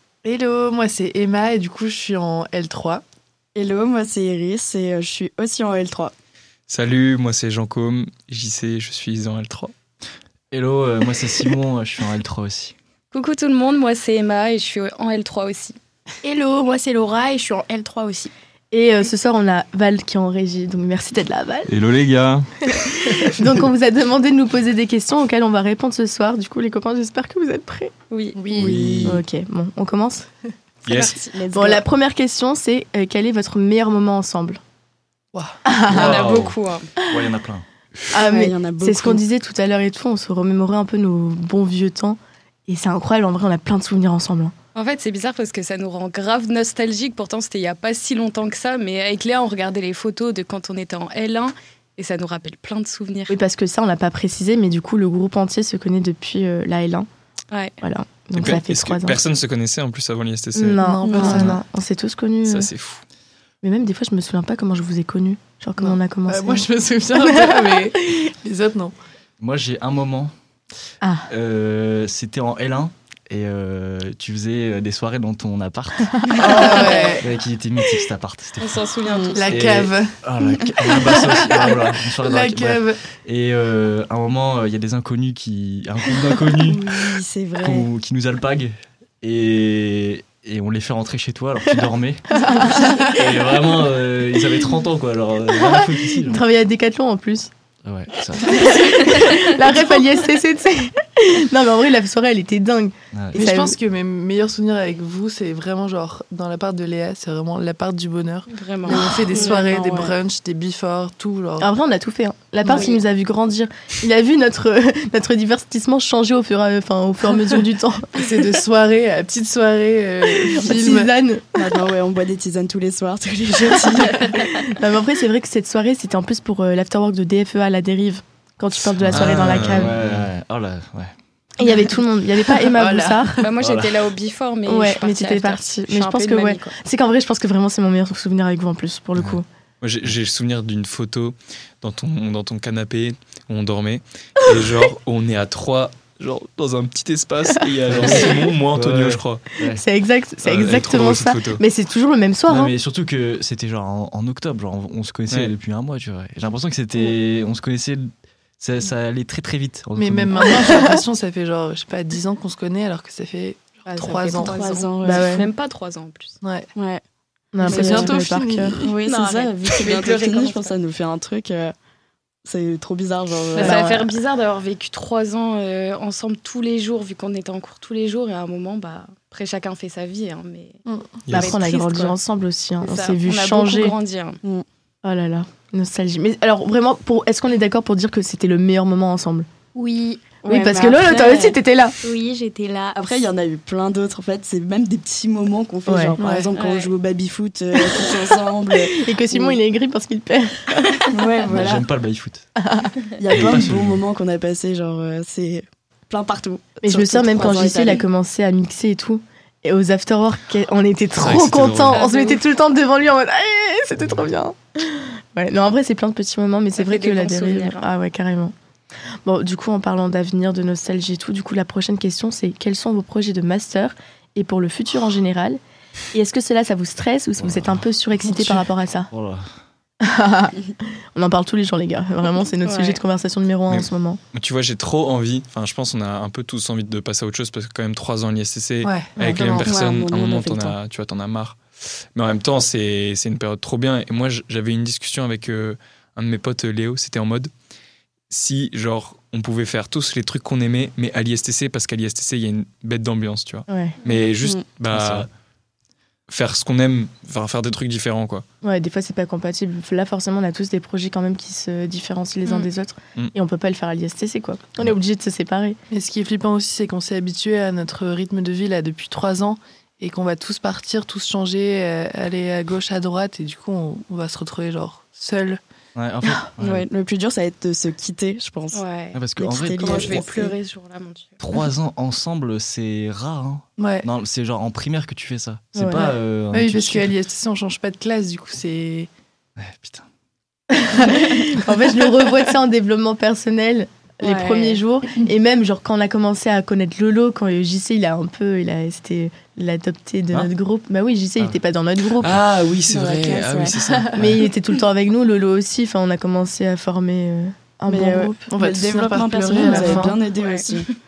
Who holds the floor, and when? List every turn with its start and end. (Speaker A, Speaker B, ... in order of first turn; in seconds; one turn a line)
Speaker A: 0.2-3.0
Speaker B: 3.5-6.1
Speaker C: 6.7-9.7
Speaker D: 10.5-12.7
Speaker E: 13.1-15.8
Speaker F: 16.2-18.3
Speaker G: 18.7-21.7
Speaker C: 21.7-22.5
Speaker G: 22.7-27.9
Speaker E: 28.1-28.4
Speaker F: 28.4-28.7
Speaker D: 28.6-29.2
Speaker B: 28.7-29.1
Speaker G: 29.1-30.3
Speaker C: 30.9-31.2
Speaker E: 30.9-31.4
Speaker G: 31.5-34.6
Speaker G: 35.6-36.2
Speaker E: 35.9-36.9
Speaker D: 35.9-37.7
Speaker G: 38.1-44.5
Speaker B: 38.1-39.2
Speaker E: 44.8-53.4
Speaker G: 53.3-57.1
Speaker E: 57.5-57.8
Speaker G: 57.8-59.2
Speaker C: 58.4-61.6
Speaker G: 60.5-62.7
Speaker A: 60.7-61.6
Speaker B: 61.1-61.5
Speaker C: 62.5-63.0
Speaker G: 63.6-67.9
Speaker A: 65.8-68.9
Speaker D: 69.4-70.3
Speaker G: 71.0-71.3
Speaker D: 71.3-76.7
Speaker A: 76.3-77.3
Speaker E: 76.4-77.2
Speaker D: 77.2-78.8
Speaker E: 78.6-79.6
Speaker B: 79.1-79.4
Speaker A: 79.4-80.2
Speaker D: 79.5-92.2
Speaker A: 81.0-83.0
Speaker B: 86.6-87.9
Speaker G: 92.4-92.7
Speaker A: 92.6-93.2
Speaker D: 93.1-96.4
Speaker G: 95.5-97.5
Speaker D: 97.8-99.2
Speaker G: 98.5-103.8
Speaker D: 103.1-103.4
Speaker A: 103.3-111.7
Speaker E: 108.5-109.5
Speaker B: 108.9-110.1
Speaker G: 111.6-118.3
Speaker A: 112.6-112.9
Speaker F: 112.7-113.0
Speaker A: 118.1-121.1
Speaker G: 120.5-121.8
Speaker B: 121.5-124.6
Speaker G: 124.3-130.0
Speaker D: 129.0-131.1
Speaker C: 129.1-130.2
Speaker G: 131.6-133.4
Speaker A: 132.6-133.4
Speaker E: 133.4-136.7
Speaker D: 133.6-133.9
Speaker G: 134.7-139.4
Speaker C: 139.8-149.4
Speaker D: 147.9-149.8
Speaker G: 148.0-148.3
Speaker G: 149.6-152.7
Speaker C: 150.4-151.6
Speaker D: 152.5-160.6
Speaker A: 160.0-164.8
Speaker G: 163.9-165.5
Speaker B: 164.4-165.4
Speaker E: 164.4-166.3
Speaker A: 166.4-166.7
Speaker B: 166.8-167.0
Speaker G: 167.5-168.7
Speaker B: 167.6-168.1
Speaker A: 167.6-168.9
Speaker B: 168.8-171.7
Speaker E: 169.0-170.7
Speaker B: 172.4-173.8
Speaker E: 173.5-180.8
Speaker G: 173.6-174.0
Speaker A: 180.8-181.1
Speaker C: 181.2-181.5
Speaker G: 181.3-183.9
Speaker E: 181.3-182.2
Speaker E: 182.8-184.4
Speaker G: 185.0-189.5
Speaker F: 189.8-190.4
Speaker B: 190.5-191.5
Speaker G: 190.5-191.9
Speaker F: 192.0-193.1
Speaker B: 193.0-199.6
Speaker G: 195.8-196.2
Speaker A: 196.2-196.5
Speaker E: 196.5-196.9
Speaker G: 198.8-201.1
Speaker B: 201.1-201.8
Speaker D: 201.4-202.4
Speaker B: 203.2-208.0
Speaker D: 203.3-204.0
Speaker G: 206.8-218.5
Speaker C: 211.2-212.0
Speaker E: 211.9-212.4
Speaker E: 216.8-217.9
Speaker G: 219.2-225.6
Speaker G: 226.1-229.1
Speaker D: 227.4-227.8
Speaker A: 228.3-228.6
Speaker D: 229.1-229.6
Speaker G: 230.0-234.2
Speaker F: 232.6-233.0
Speaker C: 233.7-241.6
Speaker A: 238.8-239.7
Speaker G: 239.2-239.4
Speaker B: 239.6-240.8
Speaker C: 242.1-247.5
Speaker C: 248.3-255.3
Speaker G: 253.7-254.0
Speaker D: 254.9-255.3
Speaker C: 256.3-258.4
Speaker G: 258.6-265.8
Speaker A: 265.9-275.6
Speaker D: 275.9-276.9
Speaker B: 276.6-278.8
Speaker E: 278.7-279.2
Speaker D: 279.1-280.2
Speaker B: 279.4-280.5
Speaker E: 279.8-281.4
Speaker D: 281.4-287.1
Speaker A: 283.8-284.1
Speaker G: 285.8-286.1
Speaker A: 286.5-289.1
Speaker D: 289.6-290.1
Speaker G: 290.7-302.4
Speaker F: 294.2-294.8
Speaker C: 302.2-304.4
Speaker F: 302.9-303.7
Speaker G: 304.1-308.4
Speaker B: 307.9-310.9
Speaker A: 308.5-310.1
Speaker G: 309.6-310.1
Speaker E: 309.6-310.8